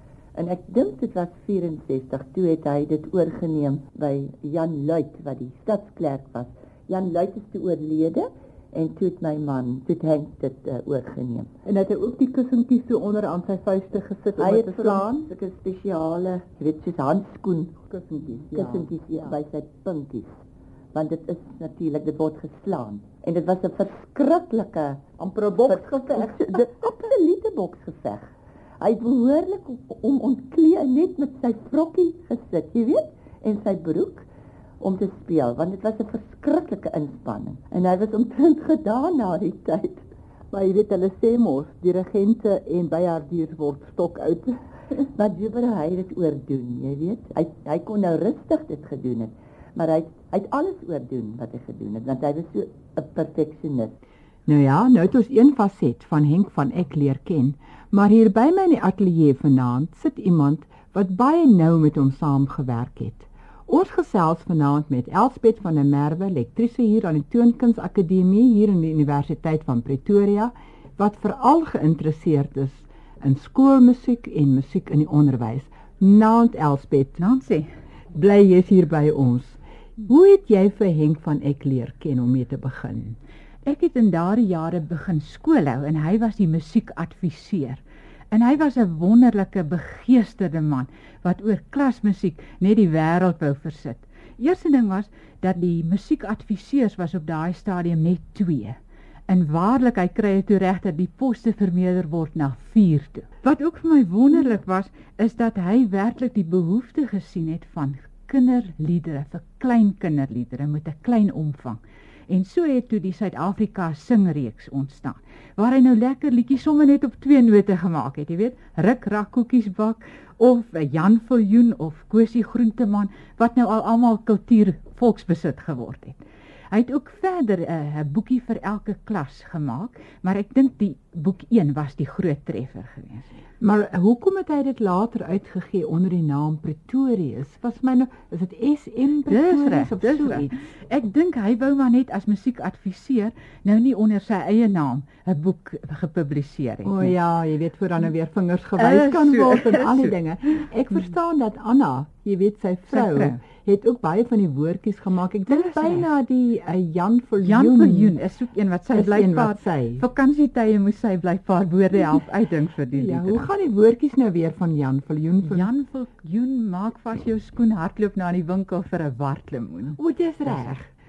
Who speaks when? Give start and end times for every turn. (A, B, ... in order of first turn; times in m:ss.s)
0:00.3-0:11.5 A
0:11.6-0:15.3 B
0:14.4-0:17.8 A
0:17.9-0:19.3 B
0:18.4-0:20.4 A
0:20.9-0:25.1 A
0:25.2-0:26.7 B
0:25.7-0:34.3 A
0:34.8-0:40.0 A
0:40.5-0:44.6 B
0:45.2-0:54.0 A
0:54.4-1:17.2 B
1:17.2-1:17.7 C
1:18.1-1:23.2 B
1:23.6-1:38.8 C
1:39.3-2:06.2 C
2:06.7-2:13.3 C
2:13.6-2:20.5 B
2:19.3-2:27.1 C
2:26.8-2:38.1 B
2:28.8-2:30.6 C
2:32.9-2:33.4 C
2:35.5-2:36.1 C
2:37.4-2:43.5 C
2:38.9-2:40.0 B
2:42.9-2:45.7 B
2:45.4-2:50.9 C
2:50.0-2:50.8 B